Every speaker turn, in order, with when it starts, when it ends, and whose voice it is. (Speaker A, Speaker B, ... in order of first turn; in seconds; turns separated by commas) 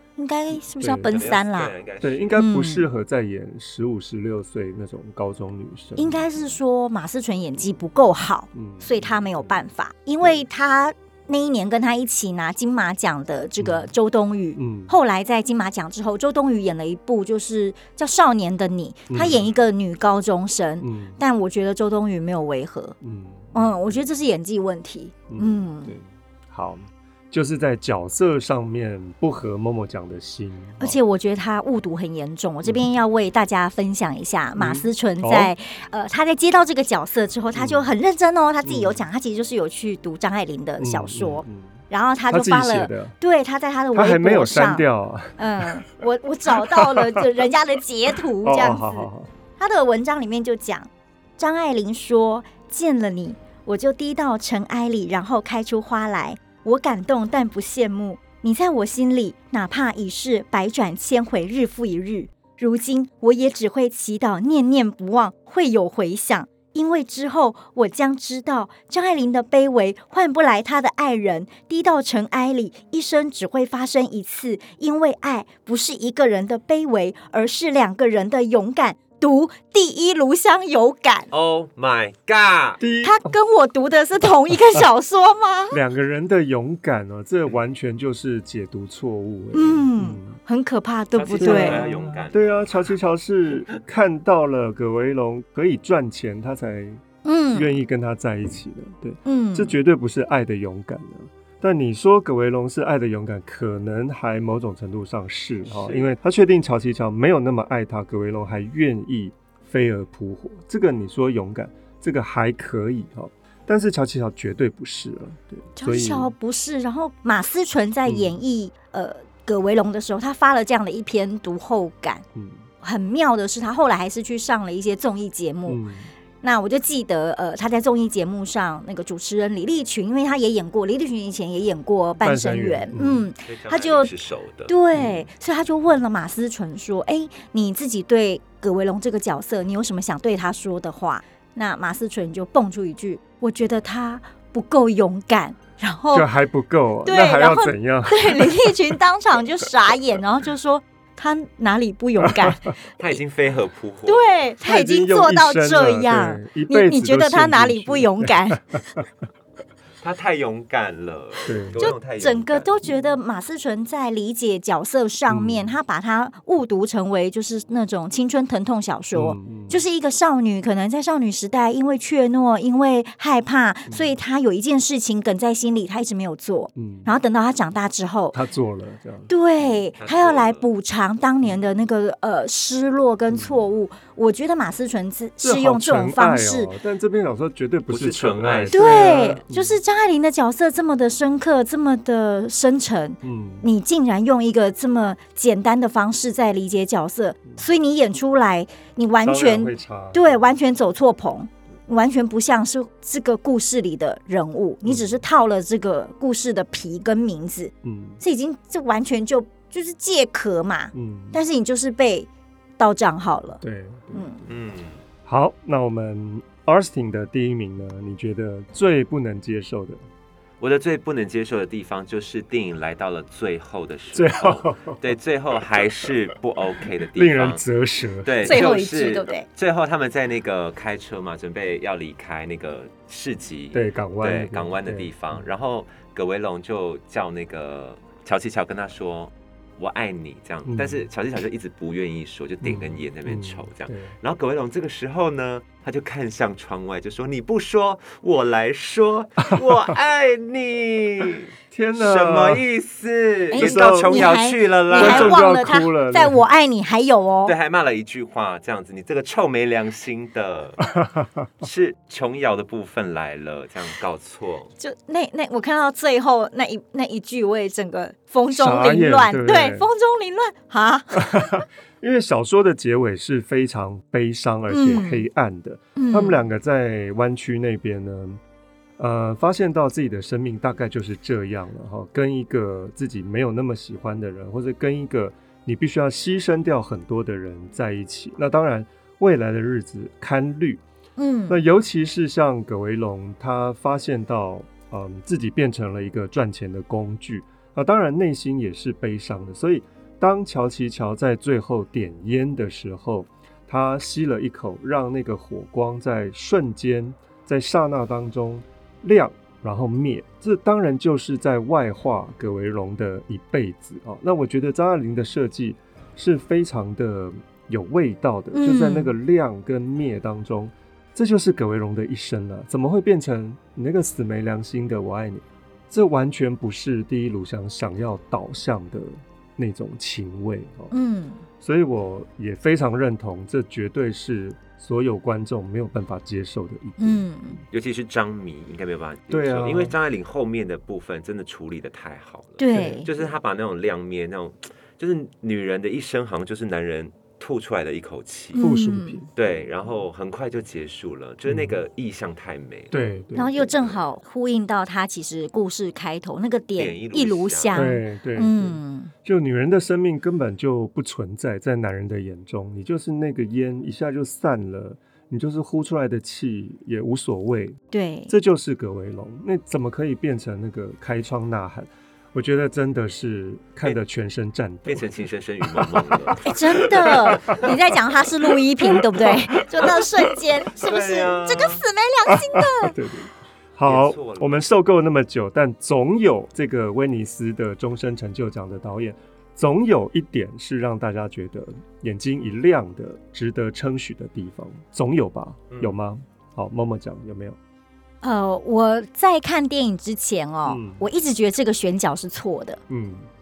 Speaker A: 0.2-1.7, Speaker B: 0.5-1.3, Speaker C: 1.0-2.4, Speaker B: 2.0-6.2, Speaker A: 2.3-2.9, Speaker A: 6.0-22.9, Speaker B: 8.5-9.6, Speaker B: 13.6-13.9, Speaker B: 14.6-14.9, Speaker B: 19.1-19.5, Speaker B: 20.8-21.2, Speaker B: 23.0-23.7, Speaker A: 23.5-25.9, Speaker B: 25.3-31.0, Speaker A: 30.8-44.9, Speaker B: 32.6-32.9, Speaker B: 34.5-35.5, Speaker B: 37.5-37.9, Speaker B: 38.6-39.0, Speaker B: 40.8-43.1, Speaker B: 43.9-45.9, Speaker A: 45.4-81.3, Speaker B: 46.7-47.2, Speaker B: 48.4-49.3, Speaker C: 81.3-82.8, Speaker B: 82.8-83.3, Speaker A: 83.0-85.8, Speaker B: 85.7-90.4, Speaker A: 89.5-91.8, Speaker C: 91.1-92.7, Speaker B: 91.4-97.0, Speaker A: 97.2-97.8, Speaker B: 97.5-116.3, Speaker A: 99.2-99.7, Speaker C: 105.7-106.1, Speaker A: 115.8-122.2, Speaker B: 118.1-118.4, Speaker B: 122.3-122.7, Speaker A: 122.8-125.8, Speaker B: 125.7-126.1, Speaker A: 126.4-134.1, Speaker B: 132.2-133.3, Speaker C: 133.4-134.7, Speaker A: 134.7-146.3, Speaker B: 134.9-135.3, Speaker B: 146.1-148.7, Speaker A: 147.0-153.2, Speaker C: 153.0-154.3, Speaker A: 154.1-158.6, Speaker B: 154.6-159.0, Speaker C: 160.0-162.8, Speaker B: 161.4-161.9, Speaker A: 161.8-178.4, Speaker B: 165.3-165.8, Speaker B: 169.1-169.8, Speaker B: 173.9-174.2, Speaker B: 176.8-177.1, Speaker B: 178.3-179.8, Speaker A: 179.3-186.7, Speaker C: 180.0-180.7, Speaker B: 183.3-183.7, Speaker B: 185.4-189.8, Speaker C: 187.9-189.4, Speaker A: 188.7-213.6, Speaker B: 193.2-193.7, Speaker B: 199.2-200.4, Speaker B: 204.8-205.2, Speaker B: 207.8-208.2, Speaker B: 210.9-211.4, Speaker B: 213.6-214.5, Speaker A: 214.1-214.4, Speaker C: 214.5-215.0, Speaker B: 215.2-220.0, Speaker C: 220.6-227.6, Speaker B: 224.1-225.1, Speaker B: 227.1-228.7, Speaker C: 228.2-255.4, Speaker A: 228.4-229.4, Speaker B: 233.7-235.1, Speaker B: 240.7-241.0, Speaker B: 242.6-244.1, Speaker B: 251.7-252.6, Speaker A: 253.5-257.6, Speaker B: 253.6-254.3, Speaker B: 254.9-256.4, Speaker C: 257.4-260.9, Speaker C: 261.6-264.7, Speaker A: 264.8-271.6, Speaker B: 268.5-269.9, Speaker B: 271.4-278.4, Speaker A: 274.7-275.3, Speaker A: 275.9-276.4, Speaker B: 279.0-290.8, Speaker A: 291.2-291.6, Speaker B: 291.5-330.9, Speaker A: 318.5-319.1, Speaker A: 330.9-331.4, Speaker B: 331.6-337.2, Speaker A: 337.0-337.6, Speaker C: 337.7-348.6, Speaker B: 339.3-339.9, Speaker A: 342.6-343.1, Speaker B: 342.7-343.0, Speaker A: 348.5-349.2, Speaker B: 348.6-349.3, Speaker C: 349.4-353.0, Speaker B: 351.5-351.7, Speaker B: 352.9-353.6, Speaker A: 353.3-359.1, Speaker C: 353.5-354.0, Speaker C: 356.8-357.9, Speaker B: 357.7-375.1, Speaker A: 367.9-368.3, Speaker C: 374.9-377.6, Speaker B: 375.7-377.6, Speaker A: 376.4-382.9, Speaker B: 379.1-380.0, Speaker C: 380.8-381.8, Speaker B: 382.3-397.6, Speaker C: 383.8-384.6, Speaker C: 395.7-396.0, Speaker A: 398.2-402.8, Speaker B: 400.6-401.1, Speaker B: 402.9-403.3